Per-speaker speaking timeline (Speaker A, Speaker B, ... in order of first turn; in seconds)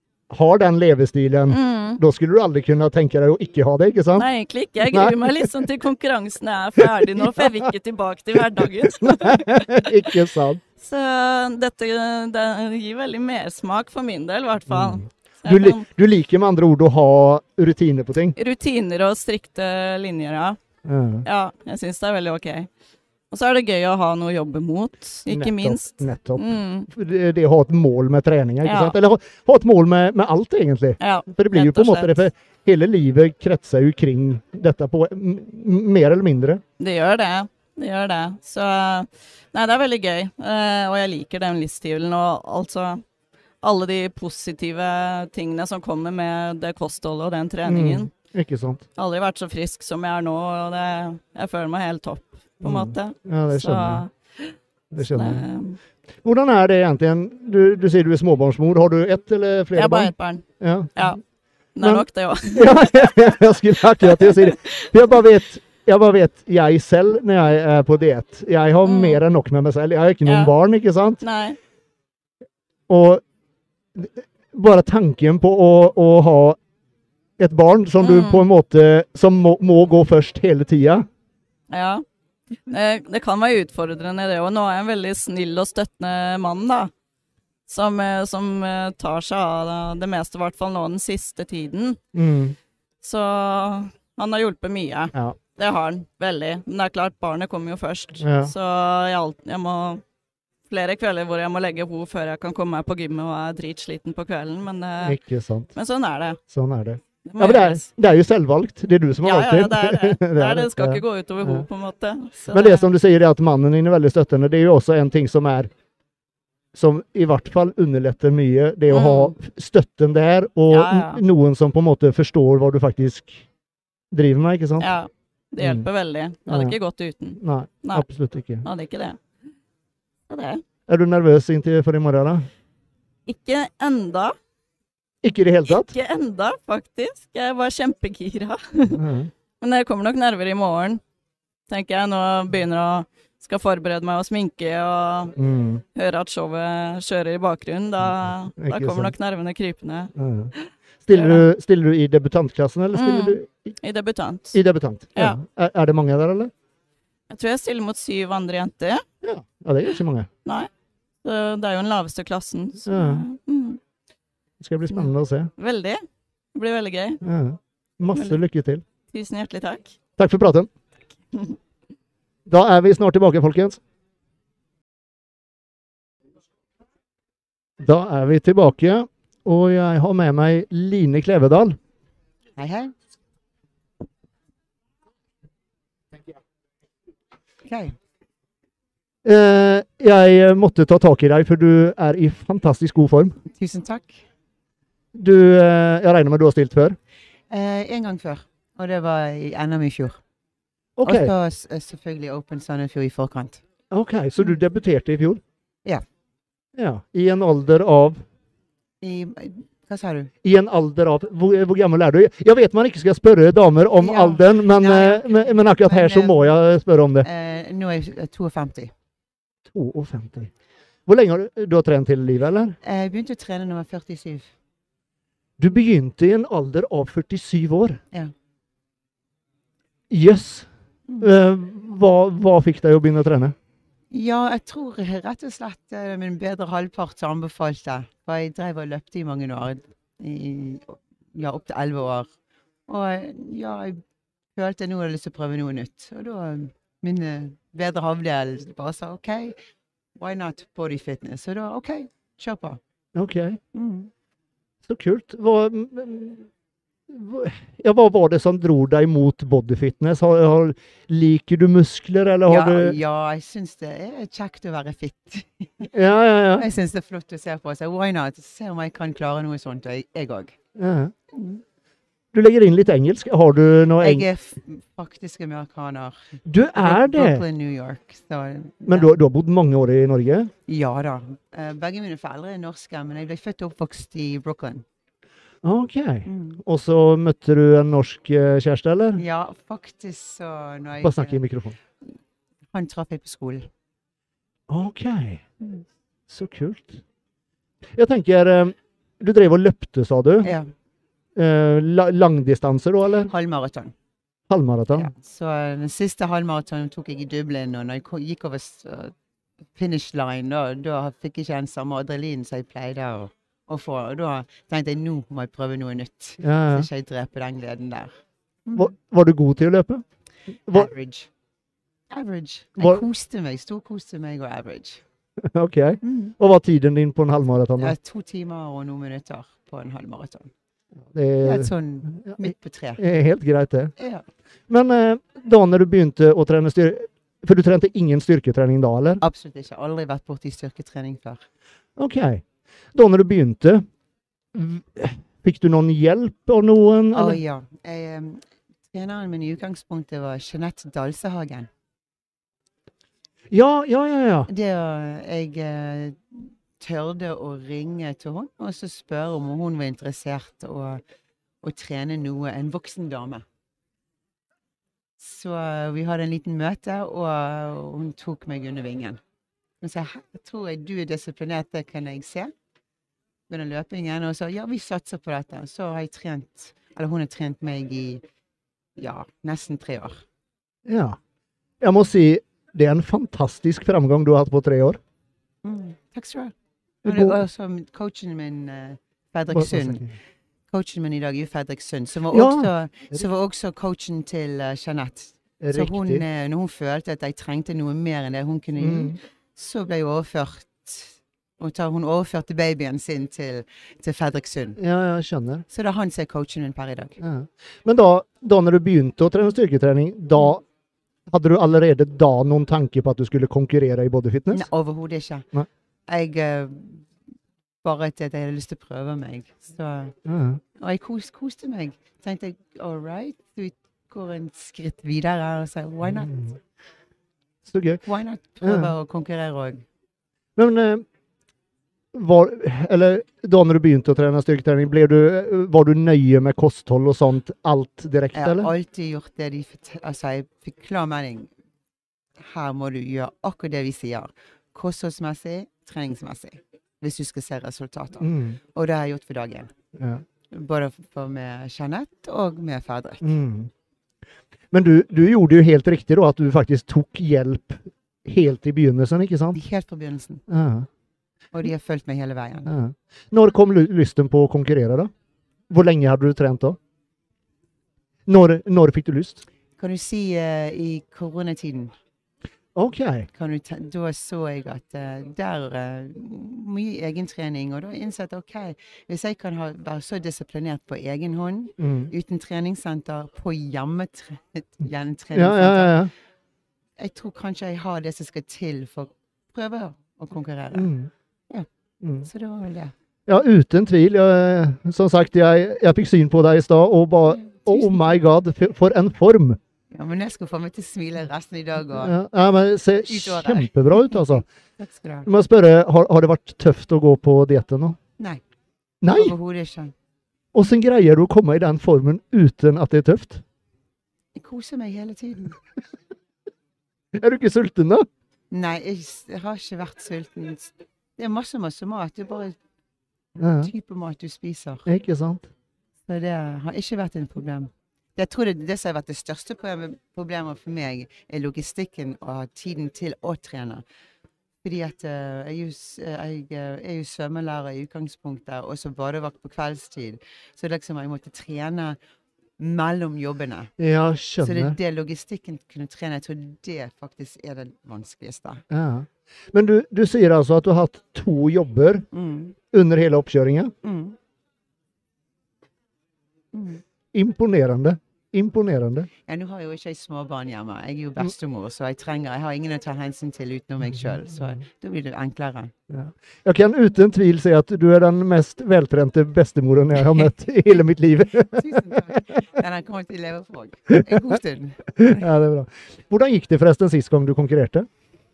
Speaker A: 0.3-4.3, 4.8-5.6, 6.8-7.5, 8.4-10.6, 14.7-18.4, 20.8-21.2, 25.3-36.6, 47.6-48.8, 52.6-54.0, 54.9-55.5, 56.2-61.1, 61.8-71.2, 72.9-73.2, 74.0-76.6, 77.4-81.1, 92.1-92.5, 98.2-98.5, 105.0-105.7, 106.5-111.7, 112.5-115.7, 116.7-123.4, 124.1-124.9, 125.6-125.9, 126.5-126.8, 127.4-128.7, 130.9-132.5, 135.2-135.9, 138.9-139.3, 145.4-145.8, 148.1-149.1, 150.2-150.5, 151.1-153.7, 154.5-156.5, 159.2-160.3, 162.9-163.2, 164.6-165.5, 167.2-168.8, 170.2-170.7, 172.5-173.8, 177.8-181.8, 189.2-193.4, 195.1-197.0, 201.0-201.3, 203.9-205.4, 206.7-208.2, 210.4-217.3, 219.7-220.5, 221.1-222.8, 225.6-228.0, 230.1-230.7, 231.2-233.5, 253.1-253.6, 254.8-256.5, 257.1-263.0, 265.9-266.7, 270.8-271.1, 272.3-274.3, 276.4-277.4, 278.9-280.5, 285.6-289.2, 291.0-291.8, 294.7-295.4, 296.3-297.0, 297.9-300.6, 301.4-303.3, 304.5-305.1, 316.4-316.9, 318.7-320.0, 322.8-323.0, 325.4-327.9, 331.1-333.9, 334.7-339.2, 342.0-343.8, 344.5-347.4, 353.5-354.5, 380.9-381.2, 381.8-385.0, 387.0-387.4, 389.5-390.1, 392.3-393.2, 395.6-396.2, 398.8-399.2, 404.8-405.6, 407.2-410.6, 411.3-414.7, 420.2-420.6, 426.1-426.6, 427.6-428.0, 428.6-428.9, 430.6-431.0, 432.1-438.7, 448.2-448.6, 450.0-450.2, 453.2-453.7, 454.7-459.6, 460.5-460.9, 462.6-465.1, 465.7-466.8, 468.3-469.4, 472.7-473.3, 481.8-482.1, 485.3-486.1, 490.7-491.1, 492.0-492.3, 493.3-499.6, 501.9-504.4, 505.2-508.0, 509.0-509.3, 510.5-513.4, 517.1-518.0, 523.4-523.7, 524.9-525.5, 543.8-544.8, 548.7-552.1, 552.7-553.7, 557.1-559.1, 565.9-572.0, 575.0-577.9
Speaker B: 1.5-2.0, 4.1-9.9, 10.8-15.8, 18.4-20.6, 21.2-22.7, 23.3-26.9, 28.6-28.9, 31.0-32.2, 36.8-43.0, 43.6-48.1, 49.0-55.8, 59.7-61.2, 61.7-63.4, 64.0-64.9, 68.8-69.2, 70.2-70.5, 71.2-71.6, 78.0-78.5, 81.7-82.0, 82.7-86.9, 87.7-92.0, 93.0-100.0, 100.7-105.2, 105.7-106.4, 107.2-107.8, 109.2-112.8, 118.9-119.3, 120.7-121.2, 124.8-128.0, 128.6-129.2, 130.3-130.6, 133.3-134.3, 135.7-139.0, 139.6-141.0, 141.7-145.3, 145.9-151.4, 152.9-154.6, 157.3-159.0, 160.4-160.7, 161.2-163.8, 164.9-166.0, 166.5-167.2, 169.1-169.9
Speaker C: 182.6-182.9, 187.6-187.9, 193.4-194.2, 197.5-200.2, 201.1-203.6, 209.0-210.3, 214.0-216.5, 217.2-218.9, 222.8-224.5, 234.1-242.3, 242.9-244.0, 244.5-249.6, 250.2-252.8, 253.7-254.1, 262.5-265.9, 266.5-270.6, 271.3-271.6, 274.0-279.1, 280.7-284.8, 286.2-286.6, 289.2-291.4, 292.7-293.7, 300.4-300.7, 303.3-303.9, 304.9-309.1, 309.7-318.1, 320.7-321.3, 322.1-325.0, 326.0-326.3, 327.8-330.5, 331.4-333.0, 334.0-334.2, 339.2-341.4, 347.1-351.7, 354.5-361.0, 361.6-363.4, 365.2-369.2, 369.8-372.5, 373.5-378.2, 379.0-380.2, 385.6-386.5, 387.0-390.0, 390.7-404.8, 405.7-407.2, 414.5-415.5, 416.1-417.1, 417.8-420.1, 420.8-426.3, 428.1-429.8, 438.3-441.5, 442.4-449.7, 450.5-453.2, 459.5-460.4, 461.5-462.7, 469.8-471.9, 473.3-486.0, 487.0-490.9, 492.2-492.9, 497.4-498.2, 499.9-502.1, 503.1-505.3, 509.1-509.9, 514.3-515.6, 518.5-522.5, 523.6-524.9, 526.1-533.8, 534.6-542.0, 542.6-543.7, 544.4-548.6, 552.1-552.5, 553.8-554.1, 556.5-556.8, 559.3-565.7, 571.5-575.2